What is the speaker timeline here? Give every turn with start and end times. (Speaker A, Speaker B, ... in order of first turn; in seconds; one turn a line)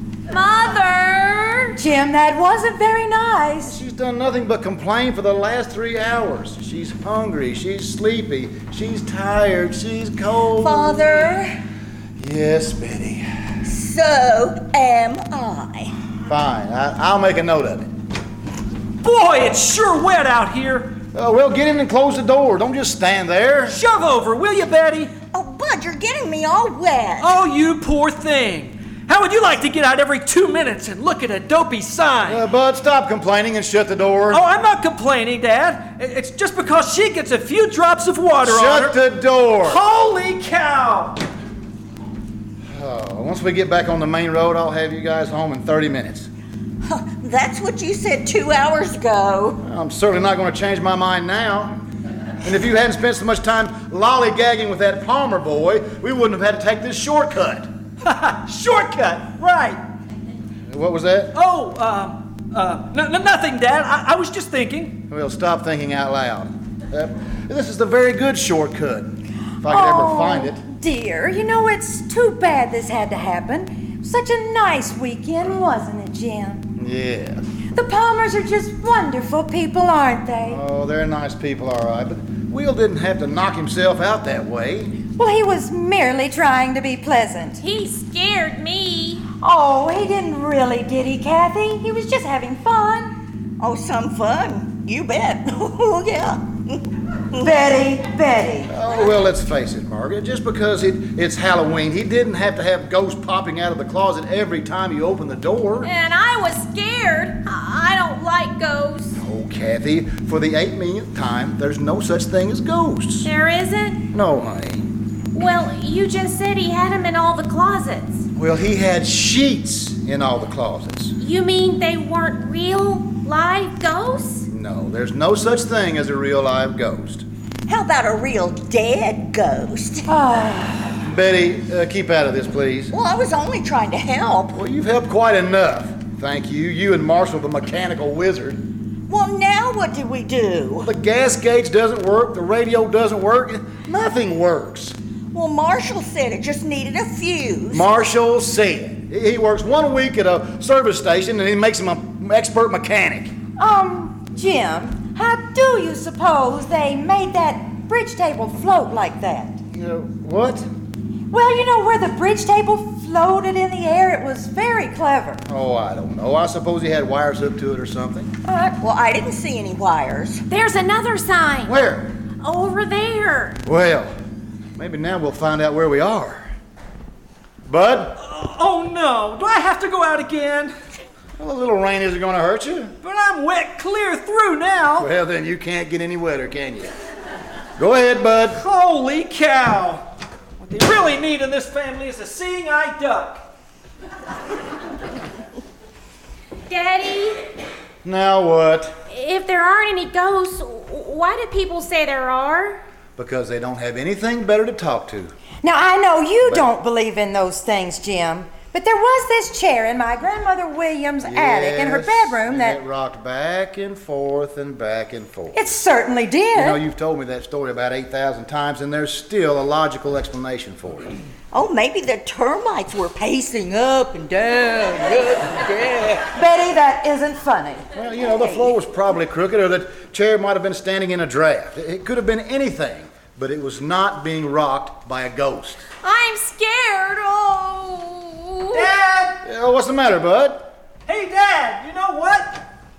Speaker A: 0.3-1.8
Speaker B: 1.8-3.7
Speaker C: 3.6-11.2
Speaker D: 10.6-11.5
Speaker C: 12.2-13.2
Speaker D: 13.6-15.9
Speaker C: 16.3-17.9
Speaker E: 19.0-21.0
Speaker C: 21.1-23.8
Speaker E: 23.7-25.1
Speaker D: 25.3-27.3
Speaker E: 27.2-32.4
Speaker C: 32.2-34.4
Speaker E: 34.3-39.0
Speaker C: 38.4-39.8
Speaker E: 39.6-41.2
Speaker C: 42.7-46.3
Speaker D: 46.8-49.6
Speaker C: 49.6-51.7
Speaker C: 52.4-57.7
Speaker E: 58.0-59.8
Speaker C: 60.7-61.3
Speaker E: 61.3-65.0
Speaker C: 65.1-70.6
Speaker B: 69.6-76.7
Speaker C: 76.8-77.4
Speaker B: 77.7-80.6
Speaker C: 80.5-84.9
Speaker B: 85.2-87.6
Speaker A: 87.6-89.2
Speaker B: 89.4-93.1
Speaker D: 93.6-97.5
Speaker B: 97.4-98.7
Speaker C: 98.7-105.9
Speaker A: 105.8-109.2
Speaker C: 109.2-113.3
Speaker A: 113.2-114.0
Speaker C: 114.1-114.8
Speaker A: 115.3-118.2
Speaker C: 118.3-121.1
Speaker A: 121.2-124.5
Speaker C: 124.5-127.2
Speaker D: 127.7-130.1
Speaker B: 130.1-131.0
Speaker C: 131.0-132.9
Speaker D: 132.9-134.6
Speaker C: 134.5-138.6
Speaker D: 139.1-140.9
Speaker C: 140.8-144.9
Speaker D: 145.3-147.9
Speaker C: 147.7-153.3
Speaker B: 153.6-159.6
Speaker C: 159.7-160.7
Speaker B: 161.3-165.4
Speaker C: 165.5-168.3
Speaker B: 168.4-168.8
Speaker D: 168.8-170.4
Speaker A: 170.5-171.8
Speaker C: 171.7-172.1
Speaker A: 172.4-173.6
Speaker C: 173.6-174.1
Speaker C: 174.8-176.4
Speaker C: 177.7-178.2
Speaker E: 178.2-180.7
Speaker C: 181.4-182.9
Speaker E: 183.0-185.1
Speaker C: 185.0-186.9
Speaker C: 187.8-188.6
Speaker E: 188.6-190.1
Speaker E: 190.6-193.4
Speaker A: 196.7-197.4
Speaker C: 198.0-199.0
Speaker A: 199.1-202.8
Speaker C: 203.2-205.3
Speaker B: 205.6-212.8
Speaker C: 211.2-215.6
Speaker B: 215.5-216.8
Speaker C: 216.5-221.2
Speaker D: 221.5-226.3
Speaker B: 226.3-227.8
Speaker C: 227.9-235.8
Speaker A: 236.0-238.9
Speaker E: 238.7-239.4
Speaker C: 239.4-240.7
Speaker E: 241.1-242.7